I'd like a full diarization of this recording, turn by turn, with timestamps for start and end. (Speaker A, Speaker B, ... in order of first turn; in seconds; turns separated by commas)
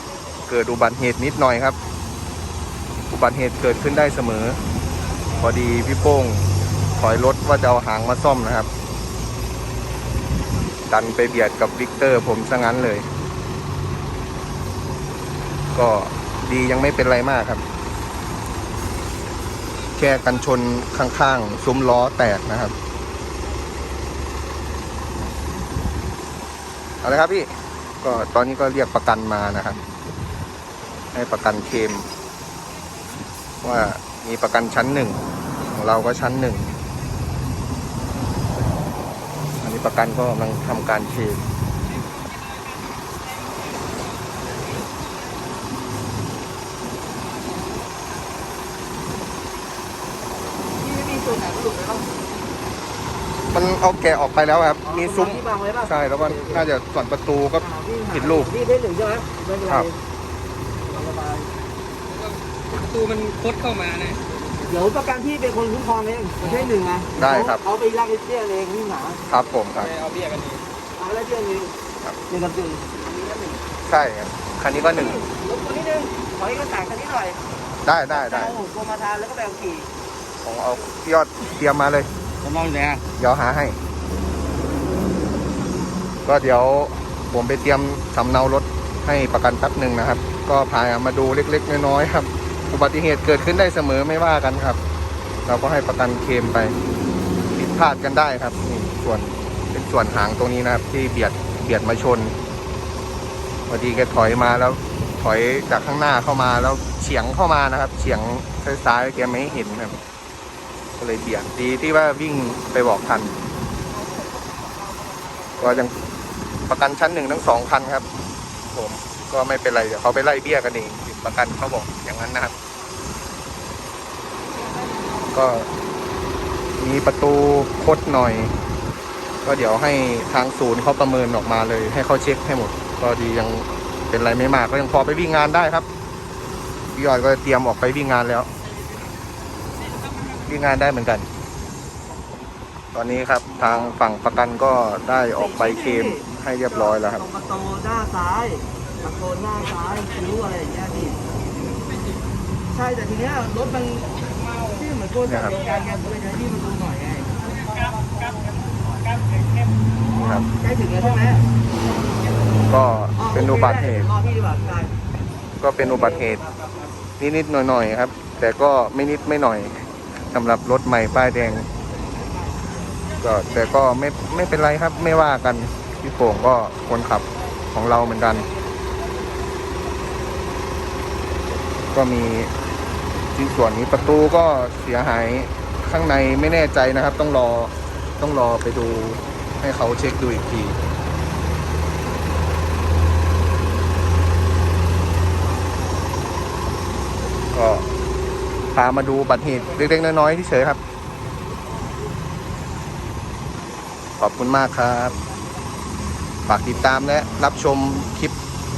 Speaker A: 0.5-1.8, Speaker A: 3.1-4.6, Speaker A: 5.4-6.5, Speaker A: 7.0-8.7, Speaker A: 10.9-13.1, Speaker A: 15.7-17.6, Speaker A: 20.0-22.7, Speaker A: 27.0-29.8, Speaker A: 31.1-32.1, Speaker A: 33.6-35.2, Speaker A: 35.7-36.7, Speaker A: 39.6-41.4, Speaker B: 50.8-52.1, Speaker A: 53.5-58.5, Speaker B: 54.8-56.6, Speaker B: 57.6-60.0, Speaker B: 60.9-61.5, Speaker C: 62.2-64.2, Speaker B: 64.6-69.2, Speaker A: 67.2-67.6, Speaker A: 69.3-70.0, Speaker C: 70.0-70.6, Speaker B: 71.0-71.7, Speaker B: 72.3-73.6, Speaker A: 73.8-75.2, Speaker B: 74.9-77.4, Speaker A: 77.8-78.5, Speaker B: 78.1-79.9, Speaker A: 80.4-82.1, Speaker B: 82.4-83.0, Speaker A: 83.2-83.8, Speaker A: 86.2-94.8, Speaker A: 95.5-96.8, Speaker A: 97.5-102.3, Speaker A: 103.7-110.0, Speaker A: 111.0-113.3, Speaker A: 115.6-115.9, Speaker A: 116.7-118.0, Speaker A: 118.7-122.5, Speaker A: 125.3-125.7, Speaker A: 126.8-128.5, Speaker A: 129.4-135.8, Speaker A: 136.9-138.5, Speaker A: 140.4-141.3, Speaker A: 142.9-147.2, Speaker B: 145.4-146.2, Speaker B: 146.8-151.2, Speaker B: 152.7-154.1, Speaker B: 154.7-157.4, Speaker A: 155.3-155.6, Speaker A: 160.1-160.5, Speaker B: 160.5-161.5, Speaker A: 162.7-164.1, Speaker B: 163.2-164.9, Speaker A: 165.6-166.4, Speaker B: 165.8-166.6, Speaker A: 167.2-171.7, Speaker A: 173.2-178.5, Speaker A: 181.9-182.5, Speaker A: 183.3-190.8, Speaker A: 197.5-197.8, Speaker A: 198.7-200.8, Speaker A: 204.2-205.1, Speaker A: 206.5-208.3